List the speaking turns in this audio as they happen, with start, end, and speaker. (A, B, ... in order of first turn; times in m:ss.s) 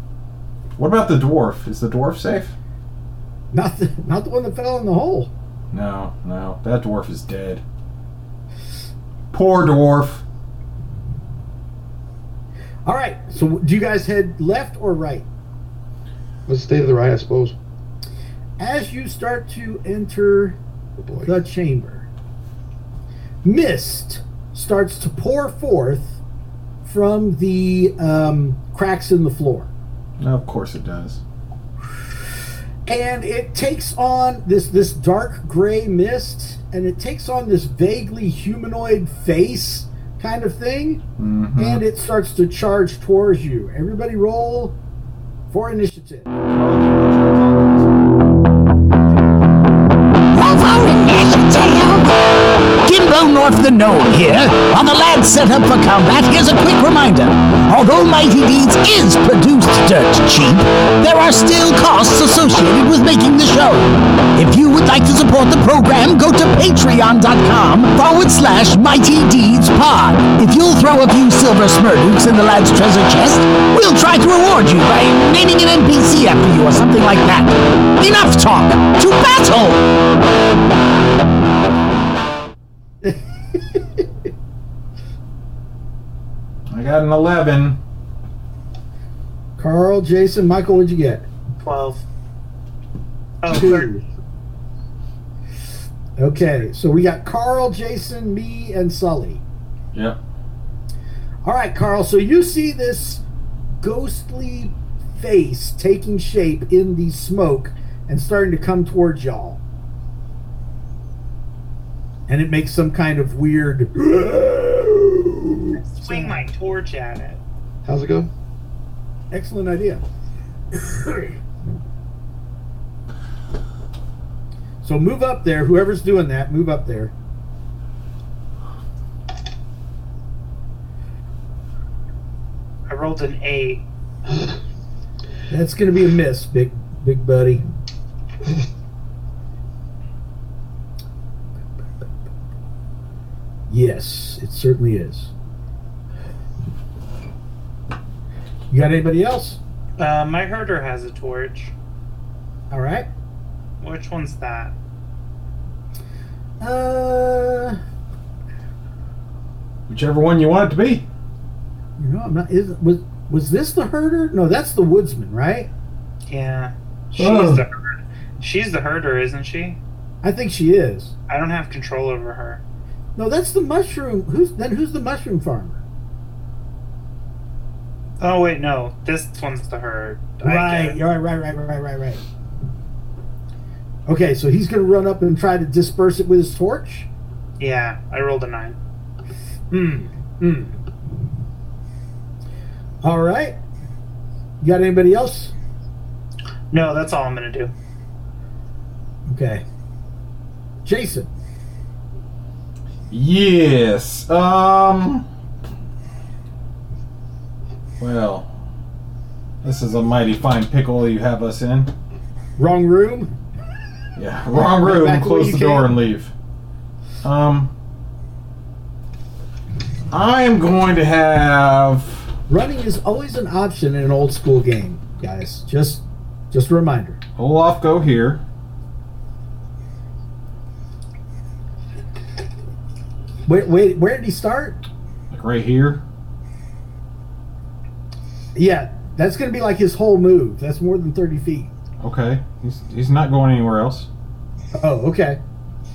0:00.8-0:02.5 A
0:03.5-0:05.3 B
0:05.7-0:07.6 A
0:09.3-0:10.2 A
0:12.8-0:15.2 B
0:16.5-0:17.5 C
0:18.6-0:20.6 B
0:21.0-0:21.3 C
0:21.2-0:22.1 B
0:23.4-0:26.2 B
0:26.8-0:29.7 B
0:30.2-0:31.2 A
0:32.9-0:41.0 B
0:41.2-0:41.8 A
0:41.6-0:44.8 B
0:45.5-0:46.3 B
0:46.5-0:47.9 A
0:50.3-0:52.1 D
0:52.8-1:19.8 D
1:26.7-1:27.8 A
1:29.6-1:31.2 B
1:31.6-1:32.0 E
1:33.4-1:33.9 E
1:33.5-1:34.0 B
1:36.2-1:39.4 B
1:39.9-1:40.2 A
1:41.4-1:43.2 B
1:43.8-1:49.6 B
1:52.3-1:56.5 B
1:55.8-1:57.4 E
1:57.8-1:58.3 C
1:59.3-2:00.0 B
2:00.7-2:01.4 B
2:04.8-2:07.1 B
2:12.9-2:13.8 E
2:15.5-2:17.6 B
2:23.7-2:25.3 B
2:28.7-2:29.6 B
2:30.0-2:31.7 E
2:32.7-2:33.1 B
2:33.8-2:34.7 E
2:36.6-2:37.8 B
2:39.9-2:41.0 A
2:42.0-2:45.7 B
2:46.3-2:49.8 E
2:47.2-2:47.6 A
2:50.2-2:51.1 B
2:51.3-2:52.6 E
2:53.2-2:55.8 B
2:58.2-3:01.0 E
3:00.4-3:02.2 B
3:04.1-3:07.1 B
3:07.6-3:08.8 E
3:09.7-3:10.8 B
3:13.0-3:13.6 B
3:14.6-3:15.5 B
3:16.7-3:17.7 E
3:19.3-3:19.6 B
3:20.8-3:21.3 B
3:23.1-3:25.2 A
3:28.0-3:28.5 A
3:29.6-3:31.9 A
3:32.6-3:33.3 B
3:34.2-3:36.3 A
3:34.5-3:35.9 B
3:37.2-3:37.7 A
3:40.1-3:42.3 A
3:42.5-3:47.2 B
3:47.4-3:48.4 A
3:53.4-3:54.8 B
3:55.3-3:56.0 A
3:58.5-4:01.7 B
4:02.0-4:04.1 A
4:04.7-4:05.4 B